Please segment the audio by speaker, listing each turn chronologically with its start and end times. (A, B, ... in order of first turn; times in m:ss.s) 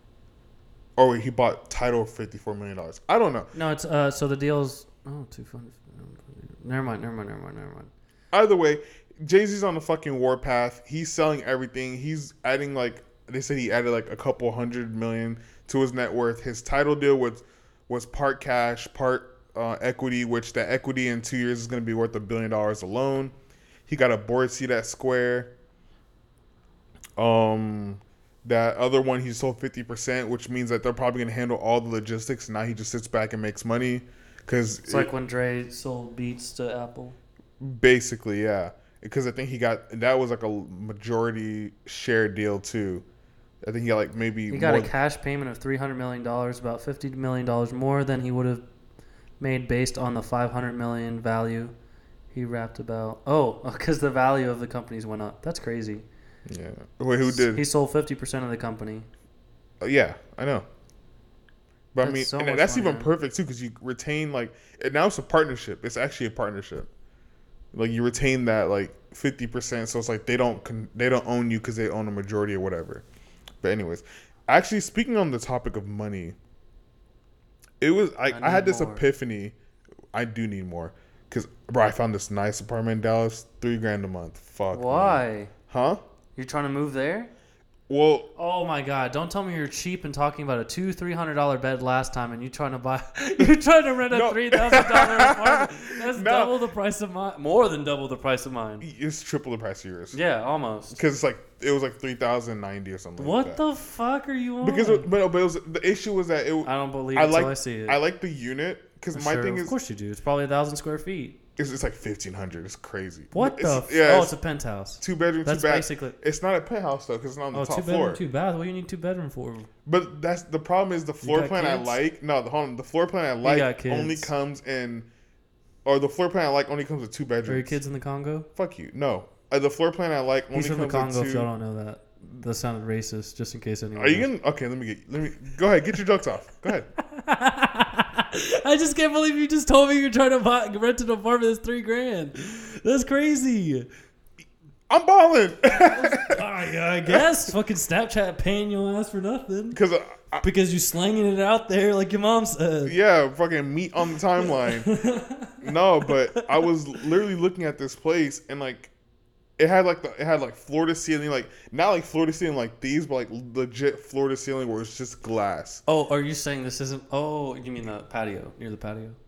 0:01.0-0:03.5 A
0:03.5-0:07.9 B
0:08.3-0:23.3 A
0:23.9-0:25.5 A
0:27.2-0:35.1 A
0:34.9-0:37.2 B
0:37.6-0:43.0 A
0:43.6-0:44.9 A
0:44.5-0:48.6 B
0:49.4-0:51.7 B
0:52.3-0:56.0 B
0:56.5-0:57.6 A
0:57.2-0:59.1 B
0:59.8-1:00.7 A
1:01.9-1:06.9 A
1:02.0-1:03.1 B
1:07.7-1:13.0 A
1:13.6-1:16.4 A
1:17.8-1:19.6 A
1:18.3-1:19.0 B
1:20.1-1:26.0 A
1:24.7-1:25.5 B
1:26.4-1:27.3 B
1:27.9-1:28.3 A
1:28.4-1:38.9 B
1:34.1-1:36.6 A
1:38.8-1:40.2 A
1:40.1-1:41.0 B
1:40.9-1:43.6 A
1:43.2-1:45.1 B
1:44.6-1:49.8 A
1:46.6-1:48.0 B
1:49.1-1:51.4 B
1:51.6-1:54.4 A
1:53.3-1:56.2 B
1:55.0-1:58.2 A
1:57.5-1:59.7 B
1:59.9-2:05.1 A
2:01.2-2:02.0 B
2:03.4-2:04.3 B
2:05.8-2:07.8 A
2:07.5-2:08.5 B
2:08.6-2:11.5 A
2:10.5-2:14.3 B
2:14.0-2:16.9 A
2:17.0-2:23.9 B
2:24.9-2:26.4 A
2:25.7-2:29.8 B
2:29.7-2:30.5 A
2:30.4-2:33.0 B
2:32.8-2:34.9 A
2:34.4-2:36.6 B
2:35.6-2:38.9 A
2:39.6-2:45.8 A
2:45.9-2:49.2 B